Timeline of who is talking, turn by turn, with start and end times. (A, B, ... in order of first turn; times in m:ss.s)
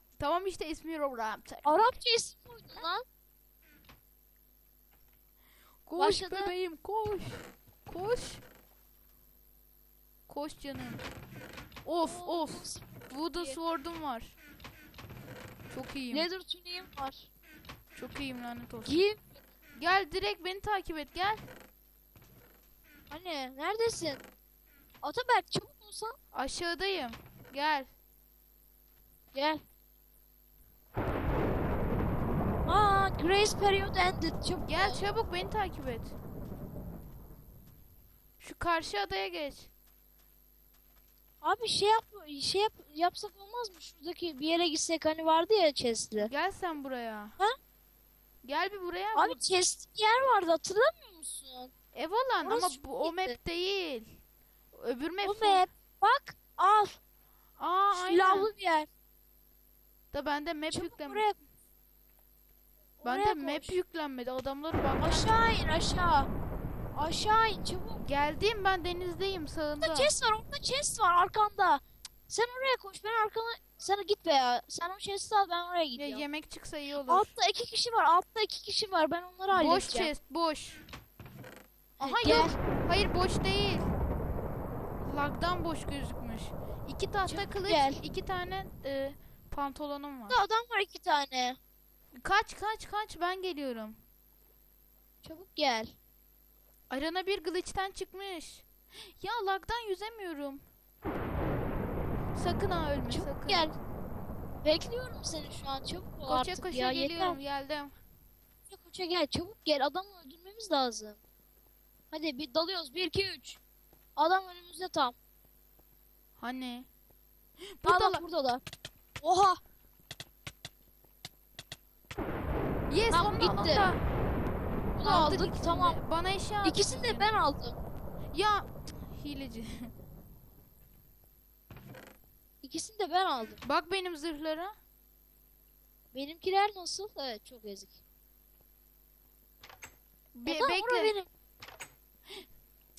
0:00.2-0:02.0 A
0:01.6-0:03.0 B
0:05.9-0:08.4 A
0:06.0-0:06.5 B
0:10.3-0:11.1 A
0:11.8-0:14.3 A
0:12.0-0:13.6 B
0:15.7-0:16.3 A
0:16.1-0:17.3 B
0:18.0-0:19.0 A
0:18.9-0:19.4 B
0:19.8-0:21.4 A
0:23.1-0:24.2 B
0:25.0-0:26.2 B
0:26.3-0:27.9 A
0:29.3-0:29.6 B
0:32.7-0:35.1 B
0:34.6-0:36.2 A
0:38.4-0:39.7 A
0:41.4-0:46.3 B
0:46.2-0:47.4 A
0:48.4-0:49.4 A
0:49.1-0:51.7 B
0:51.9-0:54.2 A
0:52.4-0:53.4 B
0:54.7-0:55.6 A
0:55.2-0:57.0 B
0:57.6-0:58.5 A
0:57.9-0:58.9 B
1:00.1-1:01.2 A
1:00.7-1:01.4 B
1:03.0-1:03.8 B
1:03.0-1:05.4 A
1:05.0-1:06.3 B
1:07.0-1:08.0 B
1:08.0-1:10.1 A
1:09.8-1:16.2 B
1:16.0-1:17.3 A
1:17.1-1:20.1 B
1:19.5-1:20.8 A
1:22.0-1:22.6 B
1:22.0-1:23.9 A
1:25.0-1:30.4 A
1:27.3-1:28.0 B
1:30.3-1:31.6 B
1:32.2-1:34.0 A
1:35.2-1:36.0 B
1:36.9-1:38.7 A
1:39.2-1:40.6 A
1:42.3-1:43.7 A
1:43.1-1:43.8 B
1:44.6-1:47.4 B
1:46.3-1:47.9 A
1:48.7-1:51.2 B
1:52.1-1:53.6 B
1:54.2-1:55.2 B
1:56.4-1:56.9 A
1:57.8-1:58.2 A
1:57.8-1:58.6 B
1:59.2-1:59.6 B
2:02.9-2:04.0 A
2:03.1-2:03.9 B
2:05.0-2:06.0 B
2:05.0-2:07.3 A
2:06.6-2:07.8 B
2:08.3-2:09.9 A
2:12.6-2:13.6 B
2:13.6-2:14.7 A
2:16.1-2:18.0 B
2:20.4-2:21.2 A
2:20.5-2:21.3 B